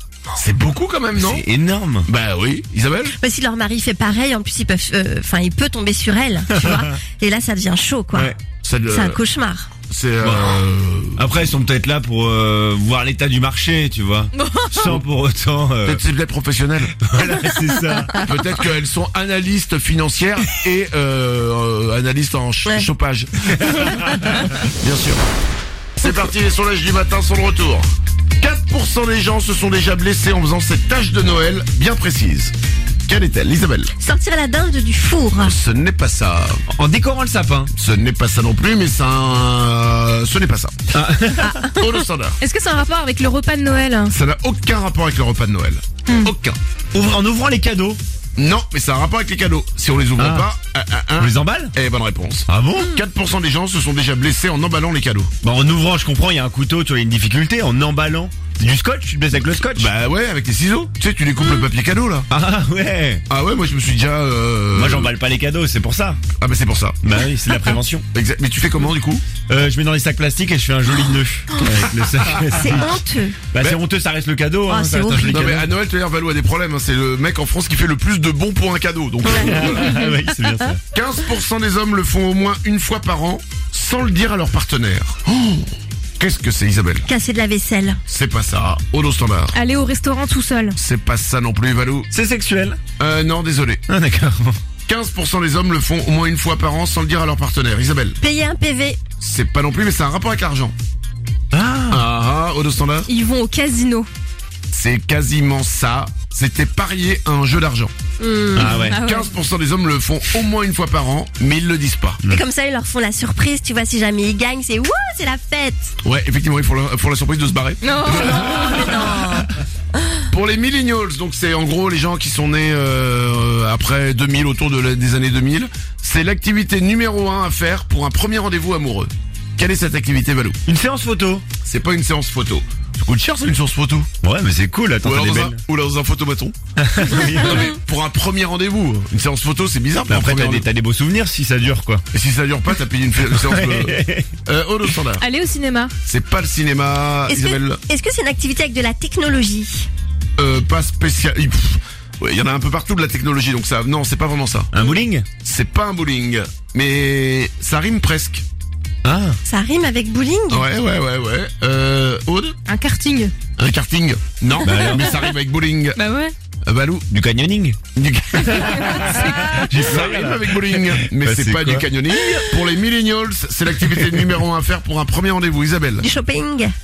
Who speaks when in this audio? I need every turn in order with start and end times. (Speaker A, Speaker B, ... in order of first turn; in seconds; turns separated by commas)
Speaker A: 0.3-1.4, Speaker B: 1.2-2.1, Speaker A: 2.1-3.2, Speaker C: 3.1-8.3, Speaker B: 6.6-6.9, Speaker A: 8.6-9.2, Speaker C: 8.9-9.7, Speaker A: 9.9-11.3, Speaker B: 10.2-10.5, Speaker B: 11.2-16.0, Speaker C: 14.5-15.0, Speaker A: 15.8-16.9, Speaker B: 17.0-18.2, Speaker A: 18.2-25.2, Speaker C: 22.6-22.9, Speaker A: 26.0-27.9, Speaker A: 28.4-32.5, Speaker A: 33.1-33.9, Speaker C: 34.0-35.6, Speaker A: 35.4-36.6, Speaker B: 36.7-37.7, Speaker A: 37.7-40.8, Speaker B: 40.9-41.7, Speaker D: 41.7-44.1, Speaker A: 41.8-42.4, Speaker A: 44.1-46.6, Speaker D: 46.1-46.3, Speaker B: 46.9-48.0, Speaker A: 48.4-55.3, Speaker B: 50.2-50.5, Speaker B: 51.2-51.7, Speaker B: 52.5-52.9, Speaker B: 55.4-59.9, Speaker A: 59.8-62.3, Speaker B: 62.3-63.2, Speaker A: 63.3-65.1, Speaker B: 64.7-66.2, Speaker A: 66.4-67.0, Speaker B: 67.0-68.0, Speaker A: 68.1-69.2, Speaker B: 69.4-73.0, Speaker C: 72.4-73.4, Speaker B: 73.5-75.7, Speaker C: 74.7-75.3, Speaker A: 75.2-80.0, Speaker B: 79.3-80.8, Speaker A: 80.9-85.7, Speaker A: 86.2-87.1, Speaker C: 87.0-88.0, Speaker A: 88.1-89.6, Speaker D: 89.5-90.8, Speaker A: 90.8-92.1, Speaker B: 92.1-92.8, Speaker A: 93.0-93.8, Speaker B: 93.9-94.6, Speaker A: 94.9-98.2, Speaker C: 98.2-99.0, Speaker A: 99.2-100.8, Speaker B: 101.5-102.0, Speaker A: 101.9-103.1, Speaker D: 103.1-104.1, Speaker A: 104.7-107.9, Speaker C: 108.2-109.0, Speaker B: 108.6-109.0, Speaker D: 108.6-109.3, Speaker A: 108.9-112.2, Speaker C: 112.3-115.9, Speaker A: 116.0-119.5, Speaker D: 117.8-119.1, Speaker C: 118.0-119.5, Speaker A: 120.3-130.6, Speaker B: 130.7-131.5, Speaker A: 131.6-134.1, Speaker B: 134.2-135.6, Speaker A: 135.0-136.6, Speaker B: 136.8-137.7, Speaker A: 137.3-140.7, Speaker B: 140.1-142.0, Speaker A: 142.1-145.2, Speaker B: 143.4-144.3, Speaker D: 145.2-145.9, Speaker A: 146.1-147.8, Speaker C: 147.3-149.9, Speaker A: 150.4-154.7, Speaker B: 154.7-155.3, Speaker A: 155.4-158.4, Speaker B: 159.0-159.4, Speaker C: 159.4-160.7, Speaker A: 160.5-162.6, Speaker D: 162.7-163.3, Speaker A: 163.6-166.0, Speaker B: 164.7-165.1, Speaker D: 165.9-166.3, Speaker A: 166.7-167.1, Speaker B: 167.1-167.8, Speaker A: 167.9-176.1, Speaker B: 168.6-172.5, Speaker C: 176.0-176.7